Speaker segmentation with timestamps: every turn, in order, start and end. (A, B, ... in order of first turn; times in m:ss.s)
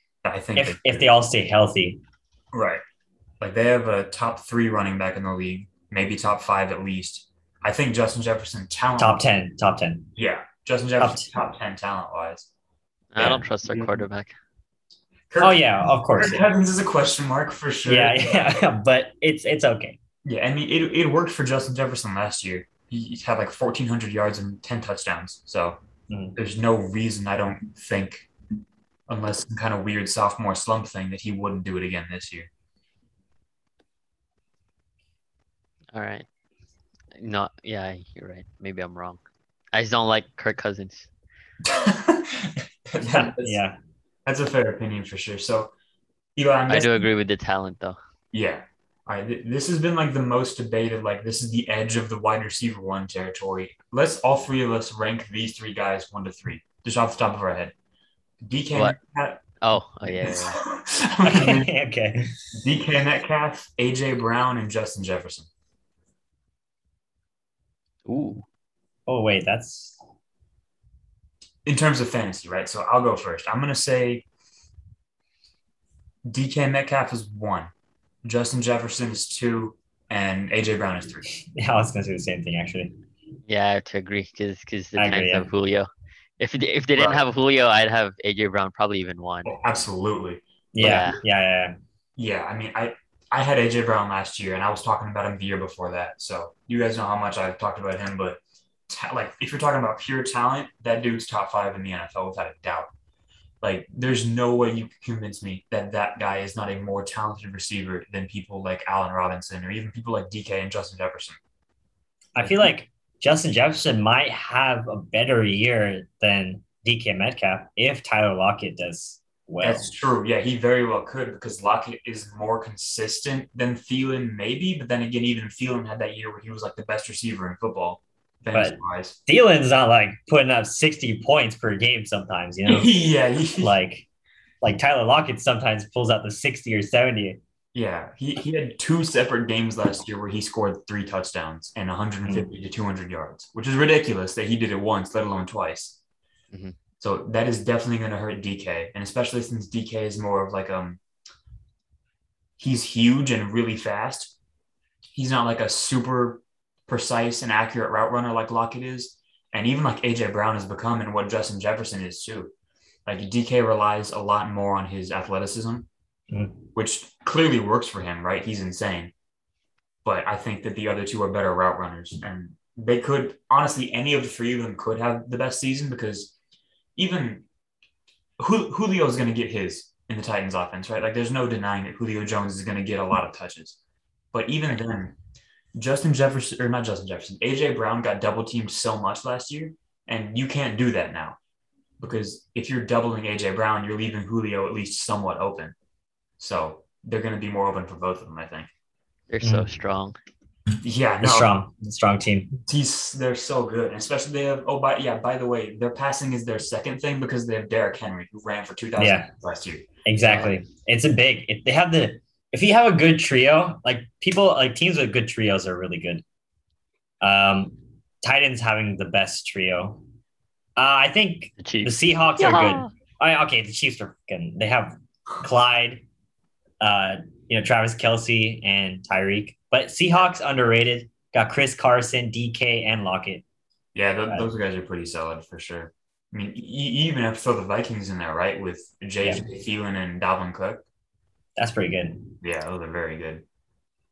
0:00.2-0:01.1 A
0:00.5-0:02.0 B
0:02.5-0:02.8 A
0:03.4-0:09.2 A
0:09.0-0:10.1 B
0:10.2-0:12.5 A
0:11.0-0:11.3 B
0:13.1-0:14.3 C
0:13.3-0:14.0 A
0:15.3-0:18.6 A
0:15.4-0:16.5 B
0:17.8-0:20.0 B
0:20.2-0:25.8 A
0:26.1-0:26.4 B
0:26.4-0:28.3 A
0:29.1-0:32.5 A
0:35.9-0:36.2 C
0:37.2-0:39.2 C
0:39.7-0:41.1 C
0:41.6-0:43.6 A
0:43.0-0:43.8 B
0:44.2-0:45.7 A
0:46.4-0:47.1 A
0:46.7-0:48.0 C
0:48.3-0:57.7 A
0:58.4-0:59.4 A
0:59.6-1:00.6 C
1:00.0-1:01.7 A
1:01.2-1:02.3 B
1:02.5-1:05.5 A
1:08.0-1:08.4 C
1:09.1-1:10.0 B
1:11.6-1:14.2 A
1:16.2-1:17.7 A
1:18.2-1:21.3 A
1:21.3-1:22.9 B
1:23.5-1:25.9 C
1:25.0-1:25.5 B
1:26.4-1:29.5 C
1:27.0-1:27.2 A
1:29.4-1:31.0 A
1:30.7-1:31.7 B
1:30.8-1:31.2 C
1:32.2-1:42.9 A
1:43.6-1:51.4 A
1:52.3-1:59.9 B
1:52.4-1:52.7 A
1:59.6-2:09.2 A
2:08.5-2:12.9 B
2:12.6-2:13.7 A
2:13.6-2:14.1 B
2:14.6-2:17.4 B
2:17.7-2:26.0 A
2:22.2-2:22.5 B
2:27.0-2:31.0 A
2:32.6-2:34.3 A
2:35.1-2:42.5 A
2:43.0-2:45.9 A
2:46.3-2:46.6 B
2:46.7-2:49.1 A
2:50.0-2:56.3 A
2:57.0-2:57.4 A
2:58.4-3:03.8 A
3:04.3-3:05.1 A
3:05.7-3:11.4 A
3:12.0-3:15.7 A
3:16.4-3:18.7 A
3:19.3-3:20.2 C
3:19.4-3:19.7 B
3:20.8-3:21.5 A
3:21.2-3:22.6 B
3:22.6-3:29.9 A
3:29.0-3:29.3 B
3:30.0-3:36.2 B
3:30.2-3:30.5 C
3:37.2-3:40.0 B
3:40.8-3:46.0 B
3:41.6-3:42.9 C
3:46.8-3:53.4 B
3:53.9-4:00.8 A
4:01.6-4:02.3 B
4:02.4-4:03.4 A